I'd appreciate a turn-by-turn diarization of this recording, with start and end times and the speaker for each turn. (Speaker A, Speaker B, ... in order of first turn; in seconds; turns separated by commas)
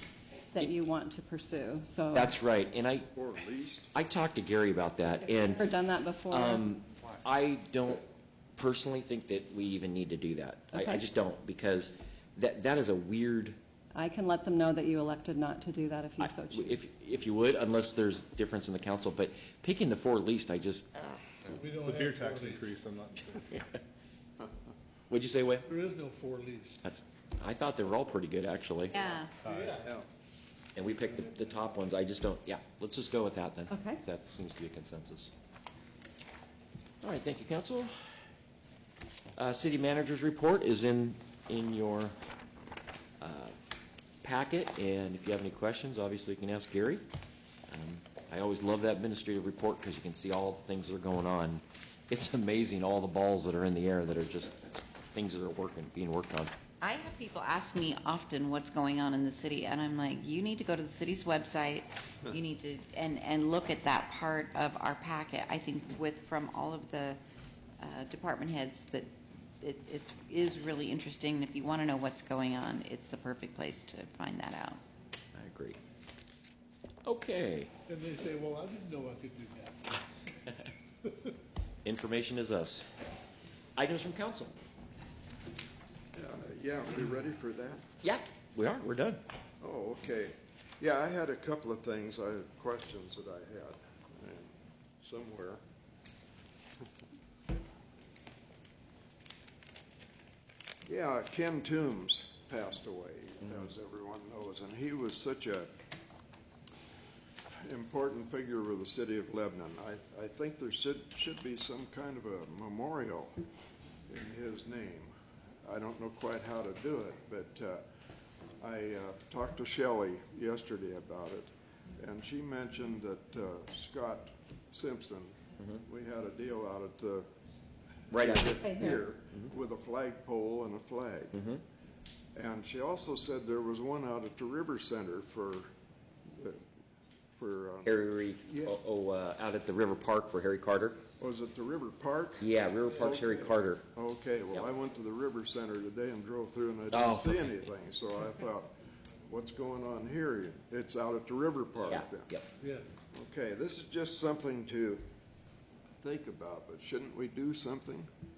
Speaker A: 0.5-2.4, Speaker B: 2.1-3.1, Speaker C: 3.1-3.9, Speaker B: 3.9-5.7, Speaker A: 5.3-6.6, Speaker B: 6.3-8.1, Speaker B: 8.6-13.6, Speaker A: 10.7-11.1, Speaker A: 13.9-16.9, Speaker B: 16.2-21.2, Speaker D: 21.4-23.6, Speaker E: 21.6-22.7, Speaker B: 25.1-25.7, Speaker E: 25.7-26.8, Speaker B: 26.8-29.1, Speaker F: 28.9-29.3, Speaker D: 29.4-29.7, Speaker E: 29.5-29.9, Speaker B: 30.8-35.3, Speaker A: 33.7-34.0, Speaker B: 37.0-37.9, Speaker B: 39.4-42.1, Speaker B: 43.2-43.5, Speaker B: 44.2-47.0, Speaker B: 47.7-56.5, Speaker F: 56.8-67.2, Speaker F: 67.8-69.1, Speaker F: 69.6-74.8, Speaker B: 75.3-75.8, Speaker B: 77.0-77.7, Speaker E: 77.9-80.0, Speaker B: 81.8-82.9, Speaker B: 83.8-84.5, Speaker C: 86.1-87.8, Speaker B: 88.0-89.2, Speaker C: 89.6-95.6, Speaker C: 100.9-105.7, Speaker C: 107.6-113.4, Speaker C: 114.1-115.1, Speaker C: 115.6-117.8, Speaker C: 118.6-127.3, Speaker B: 128.1-129.4, Speaker C: 128.1-131.4, Speaker A: 128.6-129.0, Speaker B: 131.3-131.6, Speaker C: 132.4-135.7, Speaker C: 136.3-136.6, Speaker C: 137.3-138.8, Speaker B: 137.8-141.0, Speaker C: 141.2-148.7, Speaker B: 142.4-143.8, Speaker B: 146.9-147.6, Speaker C: 149.3-152.3, Speaker B: 151.9-152.5, Speaker E: 152.6-152.9, Speaker C: 153.1-155.0, Speaker C: 156.0-158.1